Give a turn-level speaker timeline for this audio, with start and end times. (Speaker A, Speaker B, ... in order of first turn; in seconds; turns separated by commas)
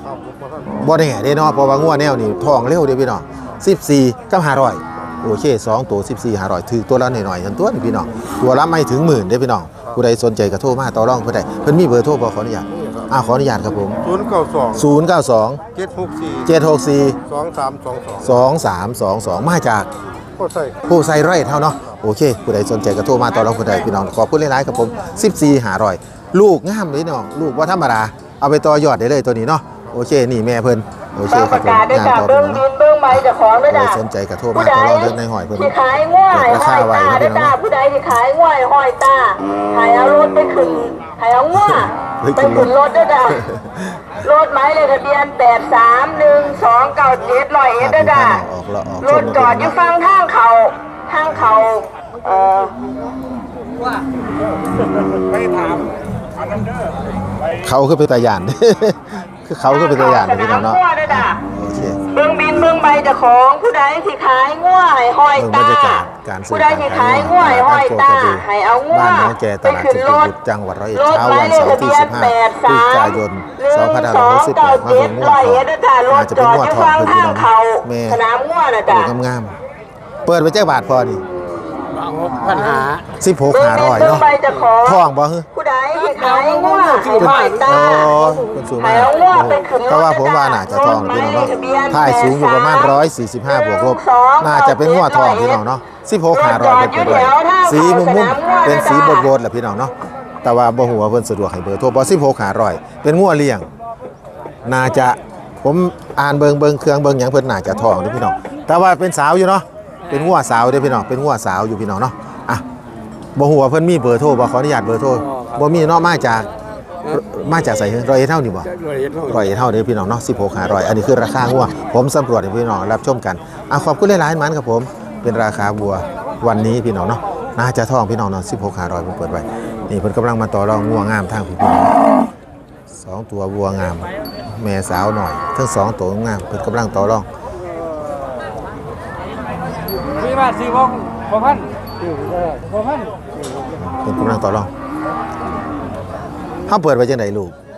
Speaker A: 0.2-0.6, Speaker B: 0.6-14.2, Speaker A: 14.2-14.7, Speaker B: 14.7-15.7, Speaker A: 15.8-16.3, Speaker B: 16.2-17.2, Speaker A: 17.4-18.1, Speaker B: 18.1-19.9, Speaker B: 20.7-35.8, Speaker C: 31.3-34.0, Speaker C: 34.5-43.4, Speaker B: 36.3-37.6, Speaker B: 41.5-42.7, Speaker B: 43.3-44.2, Speaker C: 44.2-48.4, Speaker B: 47.8-49.8, Speaker C: 49.0-52.8, Speaker A: 55.4-55.7, Speaker B: 57.4-62.0, Speaker C: 59.7-61.4, Speaker C: 62.1-70.3, Speaker B: 65.3-78.2, Speaker C: 71.0-79.1, Speaker B: 78.9-79.6, Speaker B: 80.2-81.2, Speaker D: 82.2-83.0, Speaker B: 83.1-84.3, Speaker C: 83.5-95.6, Speaker D: 84.3-84.6, Speaker B: 84.8-85.5, Speaker B: 87.1-103.7, Speaker C: 96.3-99.3, Speaker B: 104.6-112.6, Speaker B: 113.4-116.5, Speaker B: 117.0-131.9, Speaker D: 118.9-119.1, Speaker B: 132.9-137.3, Speaker D: 140.2-141.7, Speaker B: 143.8-144.7, Speaker B: 146.7-147.6